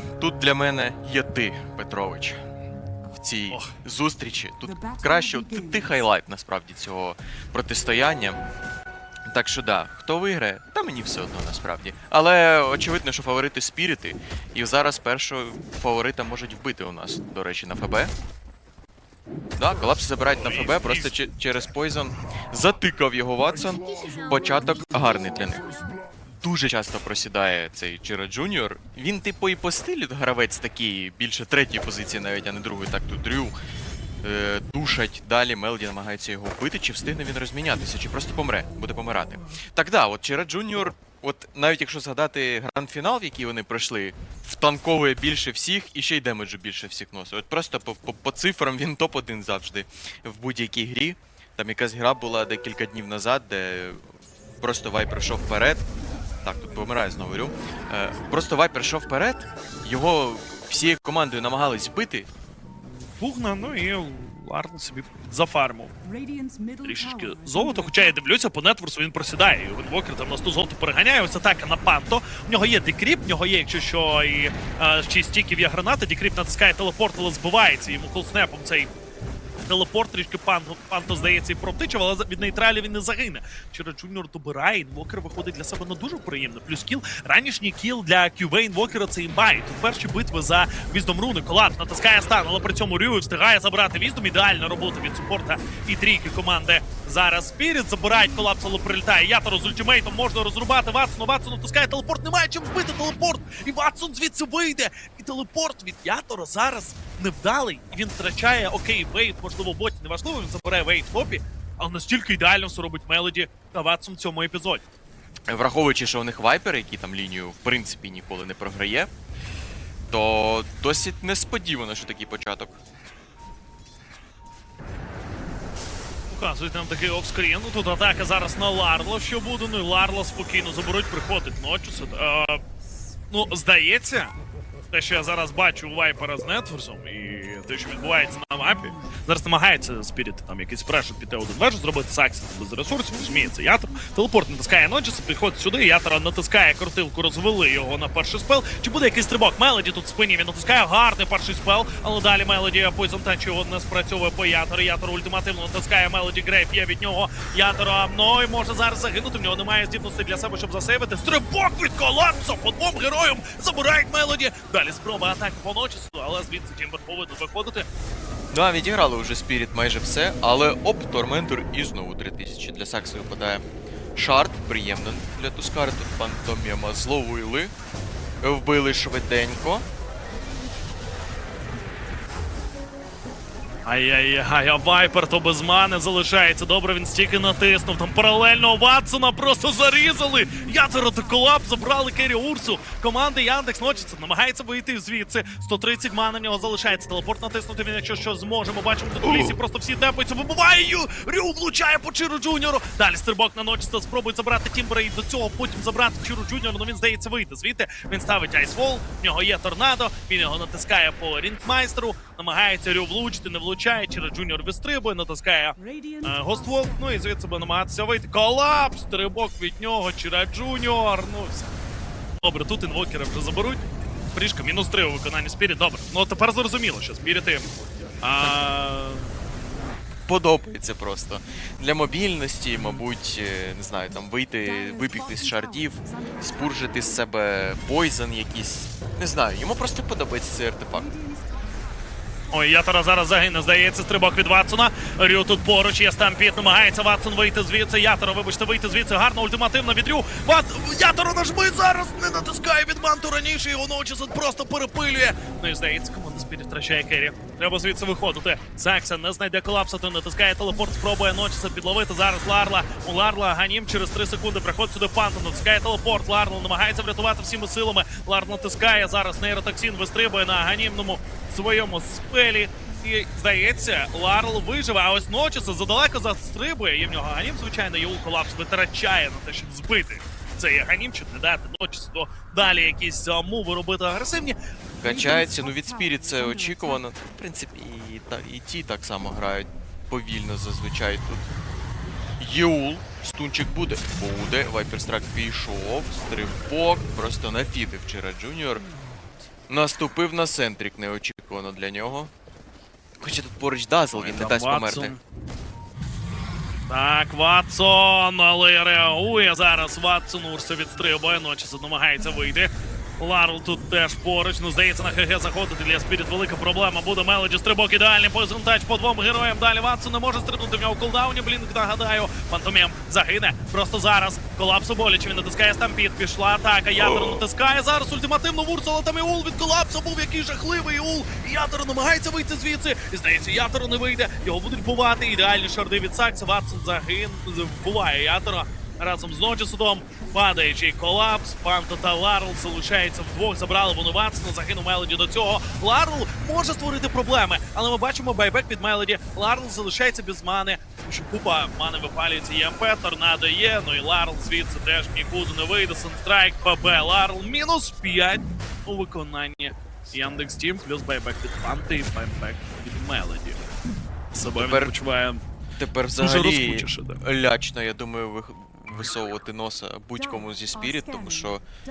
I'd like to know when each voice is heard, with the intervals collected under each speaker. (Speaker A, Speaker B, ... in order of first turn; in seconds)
Speaker A: 0.2-2.4, 3.1-8.4, 9.2-18.1, 19.6-25.8, 26.4-33.6, 34.2-54.0, 54.6-55.8, 56.4-62.3, 115.5-119.1, 120.1-122.8, 168.5-173.6, 174.1-177.7, 178.4-179.8, 199.2-199.6, 230.3-241.1, 285.0-291.5, 292.4-298.8, 299.7-302.3, 303.2-305.1, 327.0-327.4, 364.4-364.9, 365.8-371.6
Speaker B: 20.3-21.3, 63.2-65.9, 66.8-78.9, 79.6-114.8, 126.3-132.6, 133.3-134.3, 134.9-167.8, 183.8-221.7, 222.4-229.3, 242.5-284.6, 304.1-305.2, 306.9-363.6, 364.3-365.4, 366.2-367.2